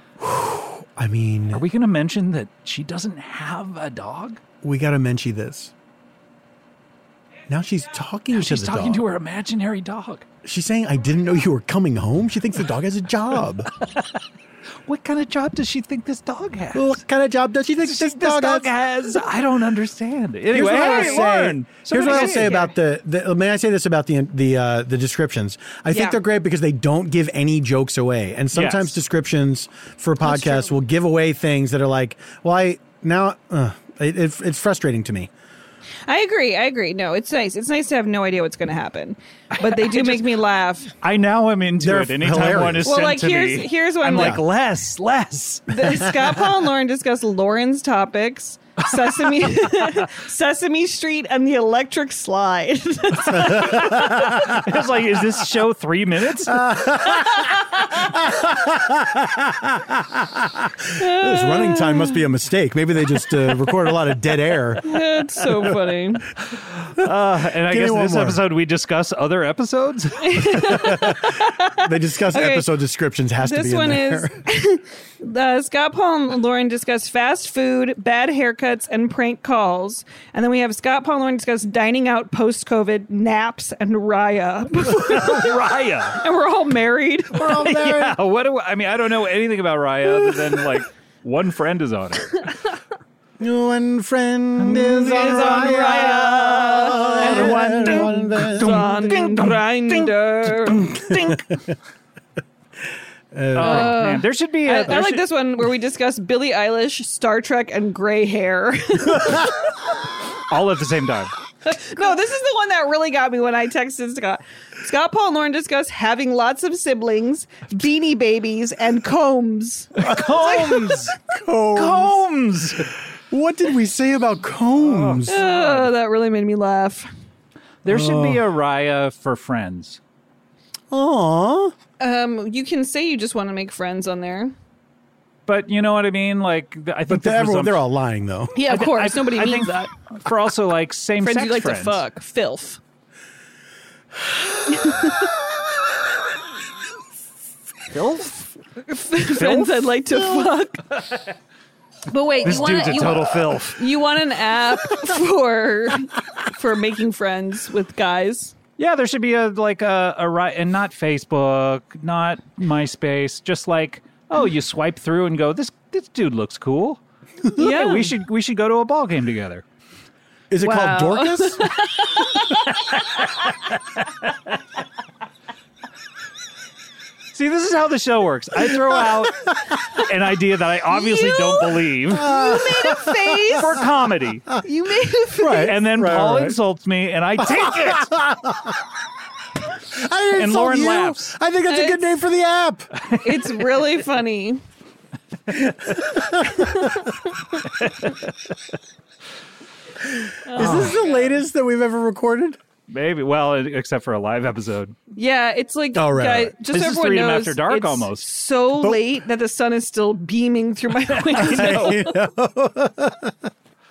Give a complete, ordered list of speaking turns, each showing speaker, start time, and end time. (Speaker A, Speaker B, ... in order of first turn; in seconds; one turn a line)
Speaker A: 0.2-1.6
Speaker B: 1.5-4.4
Speaker A: 4.6-5.7
Speaker A: 7.5-9.1
Speaker B: 8.3-10.3
Speaker A: 10.4-13.7
Speaker B: 14.9-17.0
Speaker A: 16.7-18.8
Speaker B: 17.8-22.6
Speaker A: 20.5-35.3
Speaker C: 20.6-21.3
Speaker C: 21.9-22.7
Speaker C: 25.9-26.2
Speaker B: 28.5-29.0
Speaker C: 30.2-30.7
Speaker C: 36.1-40.9
Speaker B: 39.5-40.4
Speaker B: 41.0-45.7
Speaker A: 41.8-42.9
Speaker C: 42.9-44.4
Speaker A: 44.1-44.4
Speaker C: 45.7-54.5
Speaker B: 48.9-50.0
Speaker A: 53.3-54.6
Speaker B: 53.6-56.7
Speaker A: 56.5-57.5
Speaker C: 57.1-57.8
Speaker A: 58.0-64.9
Speaker C: 61.0-62.2
Speaker C: 64.8-66.3
Speaker B: 66.7-70.9
Speaker A: 67.7-68.4
Speaker C: 70.2-72.7
Speaker A: 70.7-71.2
Speaker A: 71.8-74.4
Speaker C: 73.4-85.6
Speaker B: 84.9-86.2
Speaker C: 86.2-87.6
Speaker A: 87.3-88.2
Speaker B: 87.4-92.5
Speaker A: 90.3-90.5
Speaker A: 93.4-99.1
Speaker B: 94.6-96.1
Speaker C: 95.0-100.9
Speaker B: 97.0-101.5
Speaker A: 100.9-101.6
Speaker A: 103.3-104.0
Speaker B: 103.5-105.2
Speaker C: 103.6-109.7
Speaker B: 110.5-111.3
Speaker C: 111.7-119.9
Speaker B: 120.0-121.2
Speaker A: 120.0-122.2
Speaker B: 121.7-122.9
Speaker A: 123.3-125.4
Speaker B: 124.8-125.9
Speaker C: 125.3-127.1
Speaker B: 127.8-130.0
Speaker A: 127.9-128.4
Speaker A: 130.9-131.7
Speaker C: 132.0-134.5
Speaker B: 135.5-137.8
Speaker A: 137.1-138.5
Speaker C: 138.6-139.9
Speaker B: 138.7-142.0
Speaker C: 141.2-142.8
Speaker C: 144.7-145.3
Speaker B: 147.9-148.5
Speaker C: 148.9-150.8
Speaker B: 149.3-151.2
Speaker C: 152.1-158.6
Speaker B: 152.4-153.8
Speaker A: 152.9-153.3
Speaker B: 158.8-167.0
Speaker B: 167.5-169.6
Speaker C: 167.6-168.1
Speaker A: 170.5-171.7
Speaker C: 170.6-172.6
Speaker B: 173.0-173.5
Speaker B: 177.3-182.3
Speaker C: 180.9-183.7
Speaker A: 182.2-183.2
Speaker B: 183.5-184.5
Speaker C: 184.6-185.8
Speaker A: 185.4-186.6
Speaker B: 185.7-188.1
Speaker A: 187.4-188.8
Speaker A: 189.9-192.9
Speaker B: 190.3-191.3
Speaker C: 191.7-192.2
Speaker B: 193.0-193.5
Speaker C: 193.2-194.6
Speaker A: 196.0-196.7
Speaker C: 196.5-197.1
Speaker C: 200.4-201.4
Speaker A: 200.6-202.6
Speaker B: 200.6-201.0
Speaker B: 202.9-204.9
Speaker C: 205.2-212.1
Speaker A: 205.9-206.5
Speaker B: 206.7-208.3
Speaker B: 211.2-212.0
Speaker A: 211.3-213.4